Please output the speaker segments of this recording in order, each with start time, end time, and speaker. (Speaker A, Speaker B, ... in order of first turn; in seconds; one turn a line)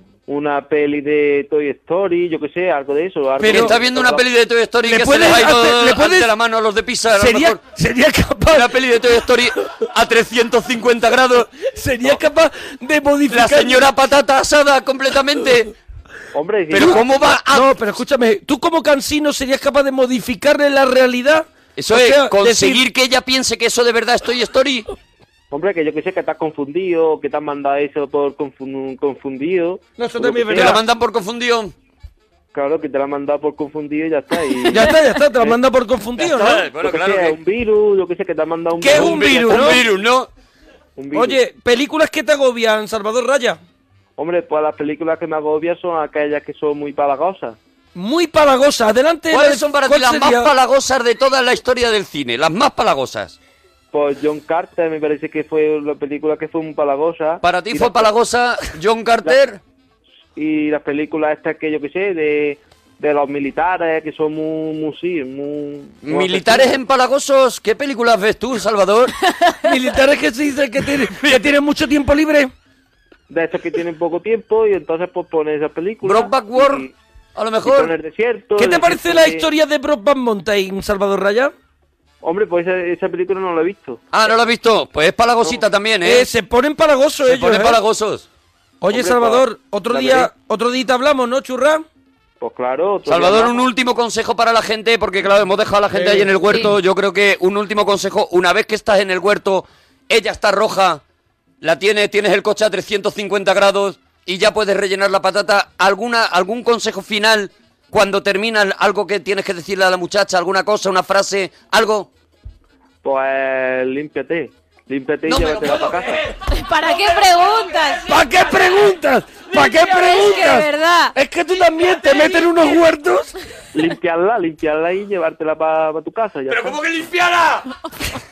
Speaker A: 0.3-4.2
Speaker B: 3.4-3.8
Speaker C: 3.5-7.6
Speaker B: 4.8-6.3
Speaker B: 7.1-8.7
Speaker C: 8.4-11.5
Speaker B: 11.6-13.9
Speaker C: 13.3-15.7
Speaker A: 16.3-17.1
Speaker C: 16.7-17.8
Speaker B: 16.7-22.8
Speaker C: 21.8-24.9
Speaker A: 25.5-30.8
Speaker B: 30.0-30.8
Speaker C: 30.5-31.7
Speaker A: 32.5-35.6
Speaker B: 34.7-36.6
Speaker C: 36.2-37.4
Speaker A: 36.4-39.8
Speaker B: 38.8-39.8
Speaker C: 38.9-40.3
Speaker A: 41.0-41.4
Speaker B: 41.1-43.6
Speaker A: 44.2-47.6
Speaker B: 47.9-50.5
Speaker C: 49.3-53.4
Speaker A: 53.9-58.1
Speaker C: 57.4-59.6
Speaker A: 60.4-66.8
Speaker C: 66.0-69.1
Speaker B: 69.6-72.5
Speaker C: 71.0-71.5
Speaker A: 73.3-76.9
Speaker C: 76.0-77.9
Speaker A: 77.6-79.5
Speaker B: 78.6-81.5
Speaker A: 82.2-84.0
Speaker C: 84.1-86.3
Speaker B: 86.0-87.8
Speaker C: 87.2-88.2
Speaker B: 88.8-91.8
Speaker A: 88.9-90.3
Speaker A: 92.4-93.7
Speaker C: 93.1-101.0
Speaker B: 95.9-96.7
Speaker C: 101.6-112.1
Speaker A: 113.0-116.2
Speaker C: 115.3-116.2
Speaker D: 116.5-118.2
Speaker B: 118.0-123.3
Speaker D: 119.5-121.1
Speaker D: 122.0-122.5
Speaker A: 123.7-126.8
Speaker C: 126.5-127.6